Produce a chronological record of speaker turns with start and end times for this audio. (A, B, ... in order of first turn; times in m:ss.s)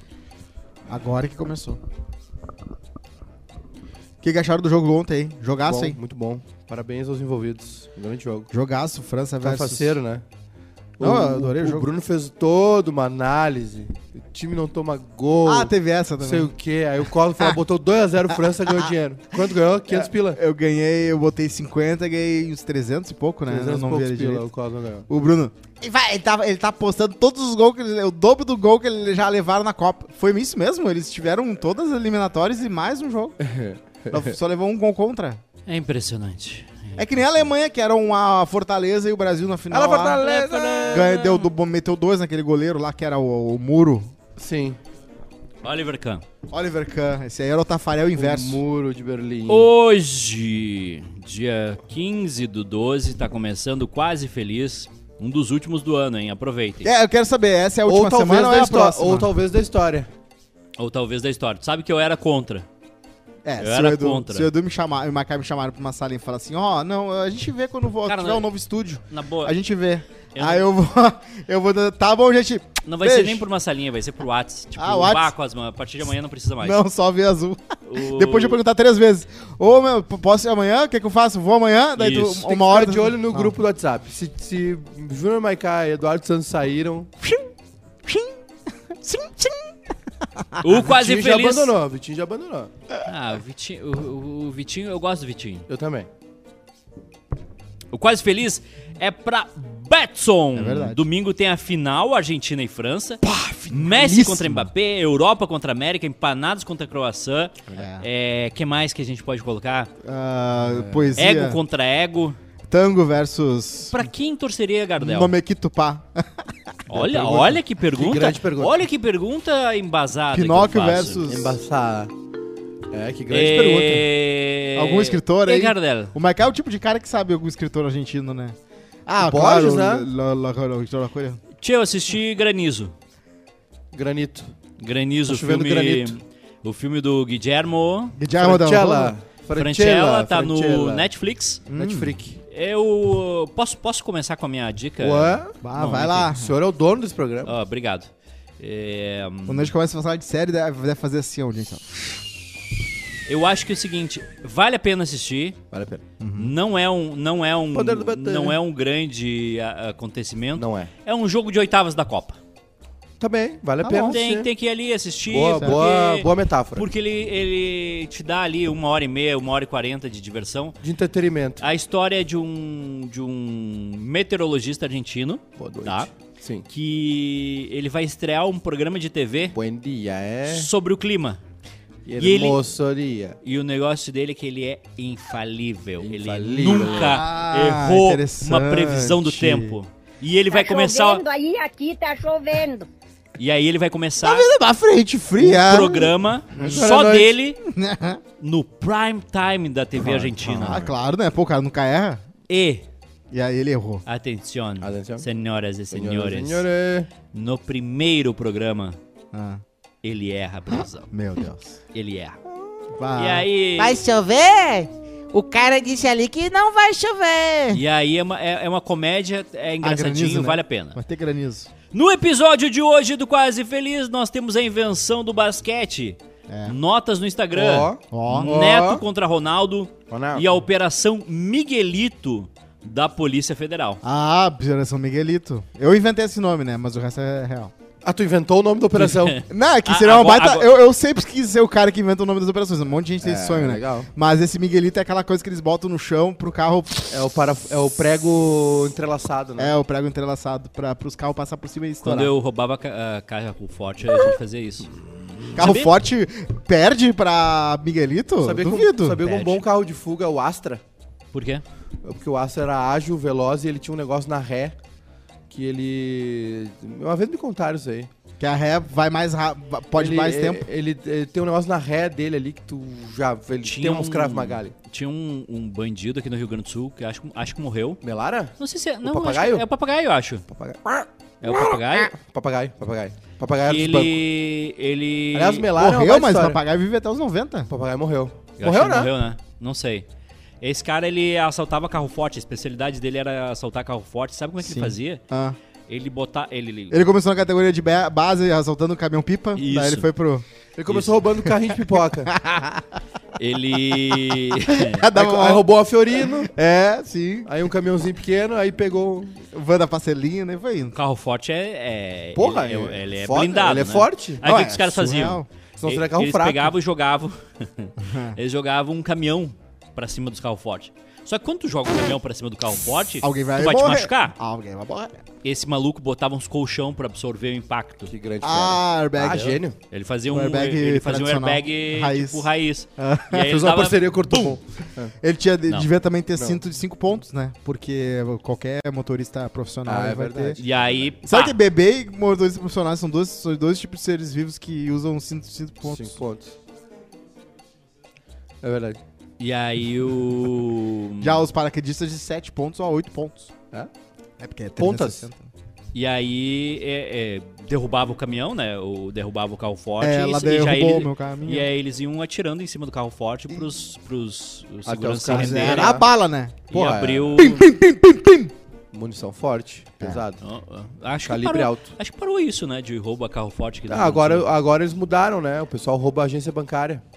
0:00.9-0:01.8 A
0:04.2-0:06.0 A
0:05.6-0:08.5 B
0:08.5-0:10.0 A
0:09.4-0:10.2 B
0:11.0-0:20.4 B
0:11.0-0:11.9 A
0:15.4-0:16.5 A
0:18.6-0:24.5 A
0:23.4-0:25.1 B
0:25.1-0:33.4 A
0:33.4-0:34.3 B
0:34.1-0:35.4 A
0:35.6-0:37.1 C
0:37.0-0:40.2 A
0:39.7-0:41.3 B
0:40.2-0:41.5 C
0:40.9-0:44.1 A
0:44.4-0:44.8 B
0:45.6-0:46.2 C
0:46.5-0:48.6 A
0:48.2-0:49.7 B
0:49.5-0:56.9 C
0:56.8-0:59.3 A
0:57.8-1:00.1 B
1:00.8-1:02.6 C
1:03.4-1:13.4 A
1:03.6-1:04.5 C
1:08.0-1:08.4 C
1:09.1-1:09.6 C
1:10.3-1:10.7 C
1:12.8-1:16.8 C
1:14.8-1:15.3 A
1:16.6-1:23.5 A
1:17.8-1:18.6 C
1:22.0-1:22.5 C
1:22.4-1:27.1 B
1:28.0-1:28.4 A
1:28.9-1:29.7 A
1:30.6-1:31.7 C
1:30.8-1:32.7 B
1:33.0-1:35.7 C
1:35.7-1:36.1 B
1:37.9-1:49.9 C
1:40.5-1:41.0 A
1:43.2-1:44.5 B
1:44.0-1:44.2 A
1:47.7-1:48.1 A
1:50.0-1:51.6 A
1:50.6-1:51.2 B
1:51.2-1:52.4 C
1:52.7-1:54.0 A
1:53.9-1:55.4 C
1:55.0-1:57.1 A
1:56.9-2:01.3 C
1:57.0-1:58.9 B
2:00.3-2:01.6 A
2:01.3-2:02.1 B
2:02.9-2:04.1 B
2:03.3-2:06.1 C
2:04.7-2:11.4 A
2:09.2-2:10.1 B
2:11.6-2:12.9 C
2:13.9-2:14.5 B
2:14.8-2:18.2 C
2:15.2-2:16.1 B
2:18.2-2:19.1 A
2:18.4-2:21.1 B
2:19.5-2:21.6 C
2:21.7-2:22.2 A
2:21.8-2:22.4 B
2:22.5-2:26.2 C
2:25.0-2:25.6 B
2:25.6-2:26.5 A
2:26.2-2:27.5 B
2:27.4-2:29.7 C
2:29.4-2:32.0 A
2:33.2-2:35.6 C
2:35.7-2:36.0 B
2:36.2-2:36.5 A
2:36.3-2:42.4 C
2:37.7-2:38.6 B
2:40.6-2:40.9 B
2:43.2-2:44.5 B
2:43.8-2:44.2 A
2:44.0-2:50.8 C
2:45.3-2:46.9 B
2:50.8-2:51.6 B
2:51.6-2:56.1 C
2:55.6-2:56.6 B
2:56.6-2:59.5 C
2:59.5-3:00.7 B
3:00.5-3:01.4 C
3:02.0-3:03.4 B
3:02.2-3:02.6 C
3:03.4-3:11.2 C
3:06.0-3:07.2 B
3:06.8-3:09.8 A
3:10.5-3:12.9 D
3:13.4-3:14.5 C
3:14.2-3:16.2 A
3:15.4-3:17.6 C
3:16.5-3:17.3 B
3:17.6-3:18.2 A
3:18.4-3:20.9 C
3:20.4-3:22.2 A
3:22.5-3:22.8 C
3:23.3-3:24.0 A
3:24.0-3:26.6 C
3:24.8-3:25.2 B
3:25.9-3:27.1 B
3:27.3-3:29.0 C
3:29.3-3:29.6 A
3:30.0-3:31.1 C
3:30.7-3:31.8 A
3:31.9-3:32.4 C
3:32.5-3:32.9 B
3:32.9-3:33.5 A
3:33.2-3:34.0 C
3:33.8-3:37.8 E
3:37.7-3:41.0 C
3:39.8-3:41.7 A
3:41.9-3:54.0 C
3:46.5-3:46.8 A
3:47.5-3:49.0 B
3:48.1-3:48.6 A
3:50.1-3:50.4 B
3:54.0-3:57.7 A
3:58.0-3:59.4 B
3:59.0-4:00.7 C
3:59.4-4:07.1 A
4:03.2-4:04.1 B
4:07.1-4:09.8 B
4:09.6-4:12.3 A
4:12.0-4:14.9 C
4:15.5-4:15.9 C
4:15.6-4:19.4 A
4:18.4-4:20.8 B
4:21.3-4:21.6 C
4:22.0-4:24.7 B
4:25.5-4:28.1 B
4:28.4-4:30.6 A
4:30.0-4:34.7 B
4:33.6-4:38.0 C
4:38.0-4:39.6 B
4:38.6-4:40.4 C
4:40.5-4:44.2 B
4:41.4-4:42.1 C
4:43.6-4:45.7 C
4:45.3-4:46.6 B
4:45.8-4:47.7 A
4:47.7-4:49.1 B
4:48.6-4:50.0 C
4:50.6-4:55.2 C
4:54.6-4:55.6 A
4:55.9-4:57.0 C
4:56.9-5:00.4 A
4:59.6-5:00.1 C
5:00.8-5:02.3 B
5:00.9-5:01.2 C
5:02.3-5:02.8 A
5:03.4-5:05.0 C
5:04.2-5:07.5 A
5:05.1-5:06.5 B
5:07.4-5:09.4 B
5:09.5-5:11.0 A
5:10.9-5:24.4 C
5:12.4-5:14.4 B
5:14.4-5:15.5 A
5:15.8-5:16.7 B
5:18.0-5:18.4 A
5:23.2-5:25.2 A
5:25.4-5:28.1 C
5:28.1-5:29.8 B
5:28.4-5:29.6 A
5:29.9-5:34.5 C
5:30.3-5:34.6 A
5:33.3-5:35.1 B
5:35.2-5:40.6 A
5:39.8-5:40.8 B
5:40.6-5:41.6 C
5:41.2-5:46.1 A
5:45.8-5:46.5 B
5:48.6-5:49.0 B
5:49.4-5:51.4 C
5:51.2-5:53.5 A
5:54.4-5:55.5 A
5:54.8-5:55.3 B
5:55.9-6:06.0 C
6:00.0-6:01.7 A
6:04.8-6:06.1 B
6:05.3-6:06.6 A
6:06.7-6:07.7 C
6:06.7-6:07.5 B
6:07.4-6:08.5 A
6:08.9-6:10.4 B
6:10.4-6:14.4 C
6:11.2-6:11.9 B
6:13.9-6:17.0 B